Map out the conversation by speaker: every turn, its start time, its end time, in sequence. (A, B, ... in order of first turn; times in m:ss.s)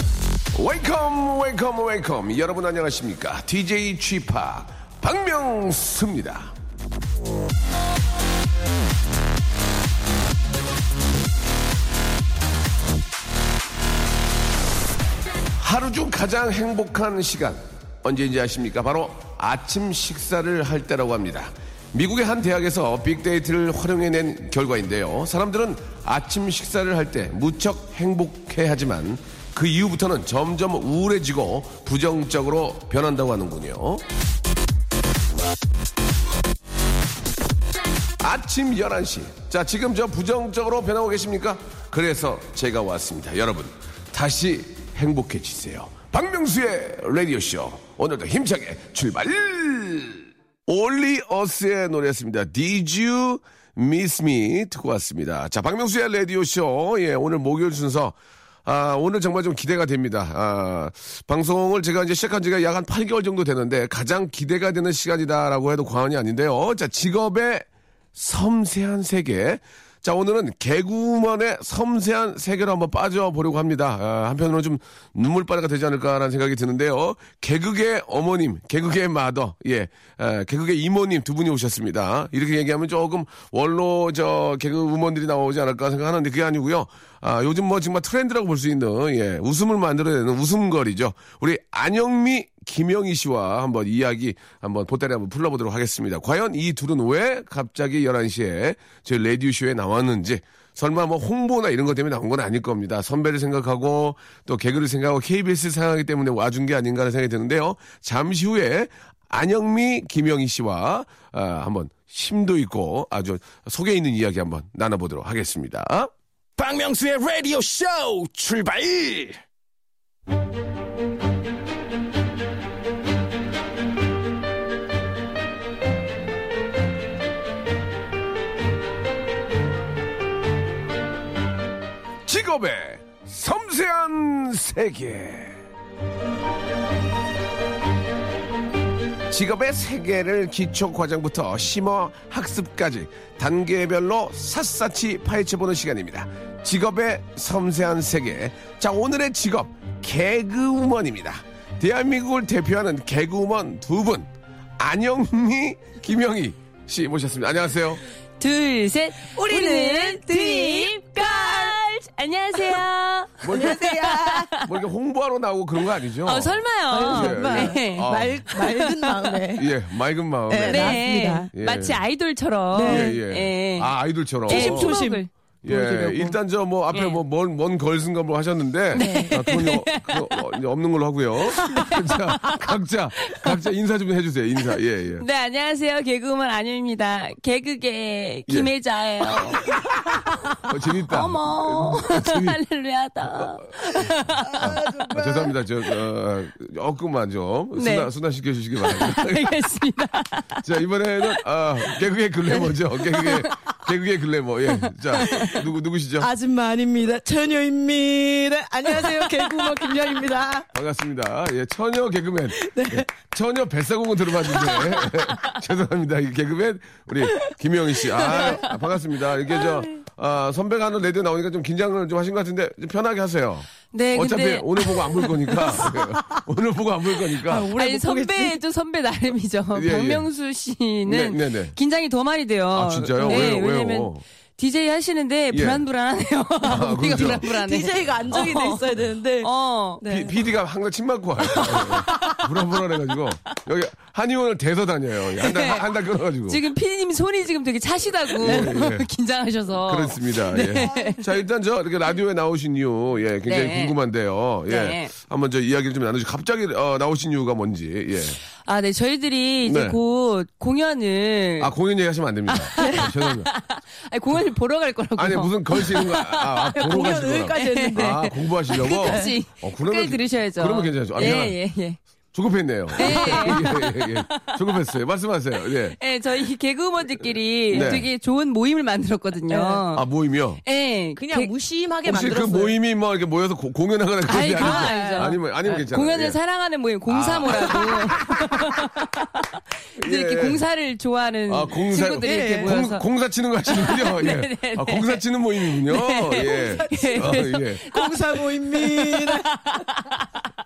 0:00.5-0:06.5 A
0:15.6-0:34.0 A
0:38.2-1:56.1 A
1:56.6-1:59.4 B
2:12.2-2:15.6 A
2:19.3-2:38.0 A
2:38.4-2:44.7 C
2:39.3-2:41.8 D
2:43.4-2:43.8 A
2:43.5-2:44.5 D
2:44.6-2:48.4 A
2:46.2-2:49.4 C
2:46.9-2:49.7 D
2:49.5-2:52.0 A
2:50.5-2:51.5 D
2:50.7-2:53.9 C
2:52.7-2:53.1 D
2:52.8-2:55.0 A
2:54.5-2:56.4 C
2:54.5-2:55.2 D
2:55.6-3:05.2 A
2:56.9-2:57.2 C
2:58.9-3:00.4 C
2:59.0-2:59.3 D
3:01.4-3:03.5 C
3:05.2-3:15.0 C
3:10.6-3:12.6 A
3:13.4-3:19.5 A
3:14.5-3:15.5 D
3:17.8-3:18.1 C
3:18.8-3:20.7 C
3:20.6-3:26.3 A
3:22.5-3:23.5 C
3:24.7-3:25.6 C
3:25.2-3:25.6 D
3:26.2-3:30.7 D
3:30.7-3:47.7 A
3:32.6-3:33.1 D
3:34.6-3:35.0 D
3:38.2-3:38.7 C
3:39.6-3:40.0 C
3:43.9-3:45.8 C
3:45.9-3:46.4 D
3:47.4-3:48.6 D
3:47.8-3:58.8 C
3:49.7-3:50.3 A
3:51.0-3:51.8 A
3:52.7-3:54.2 A
3:53.2-3:53.5 D
3:55.5-3:55.8 A
3:56.6-3:57.4 A
3:56.6-3:59.5 D
3:59.4-4:00.0 C
4:00.0-4:00.3 D
4:00.0-4:06.6 A
4:01.5-4:02.5 D
4:05.4-4:05.9 C
4:06.5-4:11.3 C
4:08.4-4:09.1 A
4:09.8-4:18.4 A
4:10.8-4:11.2 D
4:13.4-4:13.9 C
4:14.6-4:15.1 C
4:18.6-4:21.7 C
4:19.6-4:20.0 A
4:21.6-4:23.5 A
4:22.5-4:32.0 C
4:22.8-4:23.1 D
4:25.2-4:31.6 A
4:26.8-4:29.3 D
4:32.3-4:36.0 A
4:32.9-4:34.6 C
4:33.0-4:33.7 D
4:35.9-4:40.0 C
4:37.7-4:38.1 A
4:39.5-4:39.8 D
4:39.9-4:40.6 A
4:40.6-4:41.5 C
4:41.2-4:42.8 D
4:42.1-4:46.4 A
4:44.2-4:49.2 C
4:44.4-4:45.3 D
4:47.1-4:48.5 A
4:47.4-4:48.2 D
4:50.0-4:50.6 A
4:50.0-4:53.0 C
4:51.5-4:57.8 A
4:52.2-4:52.8 D
4:53.6-5:00.3 C
4:56.3-4:59.5 D